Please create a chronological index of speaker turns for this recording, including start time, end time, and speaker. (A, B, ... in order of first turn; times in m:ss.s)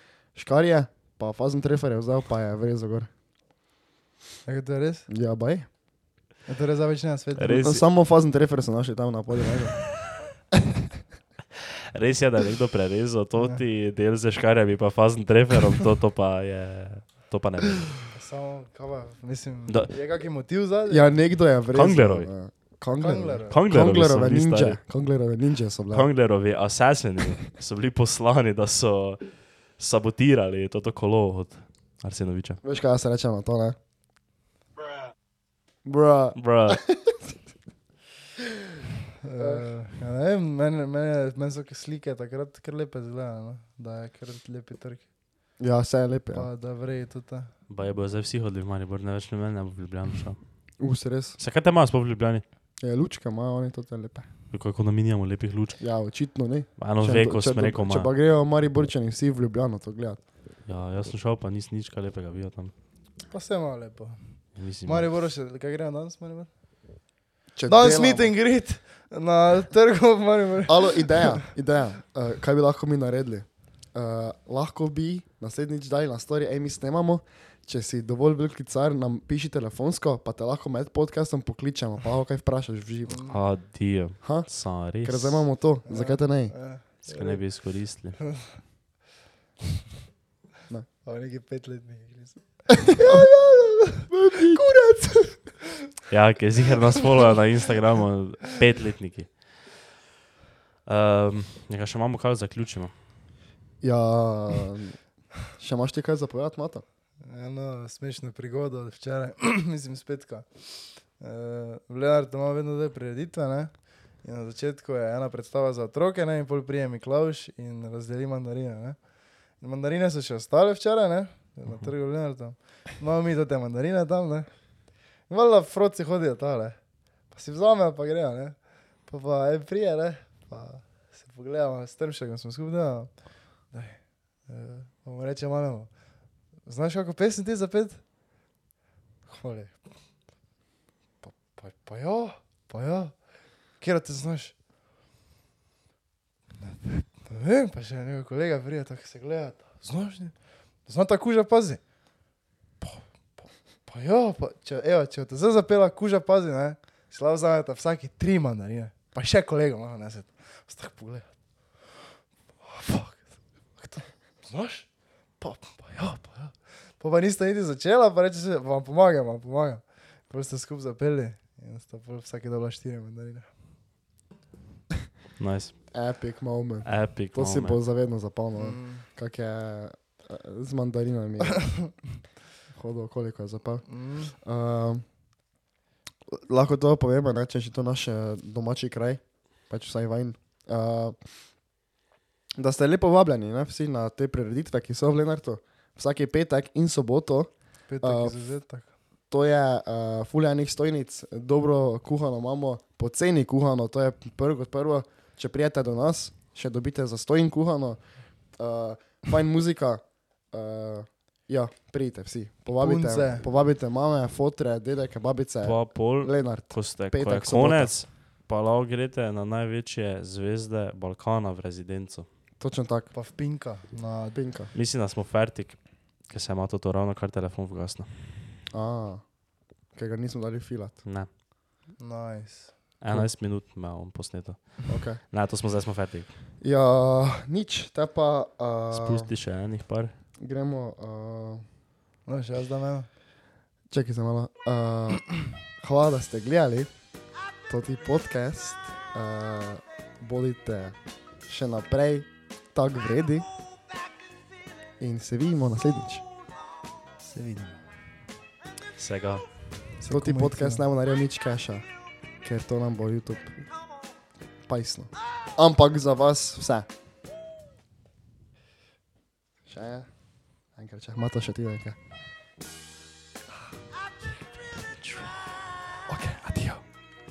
0:00.4-0:03.1 A
0:04.5-0:05.1 B
0:05.1-0:05.7 A
0:06.5-0:07.7 B
0:07.4-0:07.8 C
0:07.6-0:09.8 A
0:11.9-0:17.9 C
0:18.1-0:21.2 B
0:20.9-0:26.1 A
0:21.7-0:22.3 C
0:23.0-0:23.6 B
0:23.5-0:24.8 C
0:25.9-0:32.6 C
0:32.6-0:33.8 A
0:35.8-0:37.4 A
0:36.4-0:36.8 C
0:39.2-0:45.1 B
0:39.4-0:39.7 A
0:45.6-0:46.5 A
0:46.3-0:47.5 B
0:47.7-0:50.4 C
0:50.8-0:51.4 A
0:51.4-0:52.4 C
0:52.8-0:54.3 A
0:54.5-0:55.8 C
0:55.8-1:00.2 A
0:56.8-0:58.1 C
1:00.7-1:02.7 C
1:03.3-1:04.2 B
1:04.6-1:05.1 C
1:04.8-1:06.5 B
1:07.6-1:08.3 A
1:07.7-1:11.5 B
1:10.7-1:23.2 A
1:23.1-1:23.4 B
1:23.3-1:25.5 C
1:24.2-1:26.6 A
1:25.9-1:27.5 B
1:27.1-1:28.2 C
1:28.2-1:28.6 B
1:31.0-1:35.8 B
1:33.0-1:33.3 A
1:34.1-1:34.6 A
1:36.1-1:39.4 C
1:36.6-1:37.3 B
1:40.9-1:42.9 C
1:43.8-1:45.0 A
1:45.6-1:46.8 A
1:47.2-1:53.7 B
1:54.2-1:59.0 B
1:59.6-2:04.5 B
2:05.3-2:06.8 B
2:07.3-2:15.9 B
2:16.7-2:18.0 B
2:19.3-2:19.8 B
2:21.2-2:23.2 B
2:23.8-2:24.6 B
2:26.6-2:30.3 B
2:30.9-2:31.8 B
2:32.8-2:41.3 B
2:42.6-2:44.9 B
2:45.4-2:53.5 B
2:55.4-2:55.8 C
2:55.9-3:01.7 A
2:56.8-2:57.8 C
2:58.6-2:59.1 B
3:01.5-3:01.9 B
3:02.7-3:03.8 A
3:03.9-3:04.3 B
3:04.4-3:05.0 A
3:06.3-3:11.2 A
3:12.6-3:17.5 A
3:17.9-3:18.9 B
3:18.0-3:18.4 A
3:19.3-3:28.0 A
3:28.6-3:38.0 A
3:32.8-3:33.5 B
3:35.6-3:42.3 C
3:42.6-3:43.1 A
3:43.1-3:44.4 B
3:44.4-3:44.7 A
3:44.7-3:48.3 C
3:48.7-3:49.2 A
3:49.9-3:51.0 A
3:52.0-3:52.8 B
3:53.0-3:56.3 C
3:54.9-3:55.2 A
3:56.6-3:59.3 A
3:58.9-4:00.2 C
4:00.4-4:01.6 A
4:02.3-4:03.1 B
4:03.9-4:06.9 A
4:07.7-4:11.0 A
4:11.5-4:13.5 A
4:15.0-4:16.2 A
4:17.2-4:17.8 B
4:19.0-4:19.4 C
4:20.0-4:20.9 B
4:20.1-4:21.8 A
4:22.4-4:23.7 A
4:24.7-4:26.9 A
4:29.7-4:30.1 A
4:30.8-4:32.0 A
4:34.9-4:35.4 C
4:36.1-4:36.8 A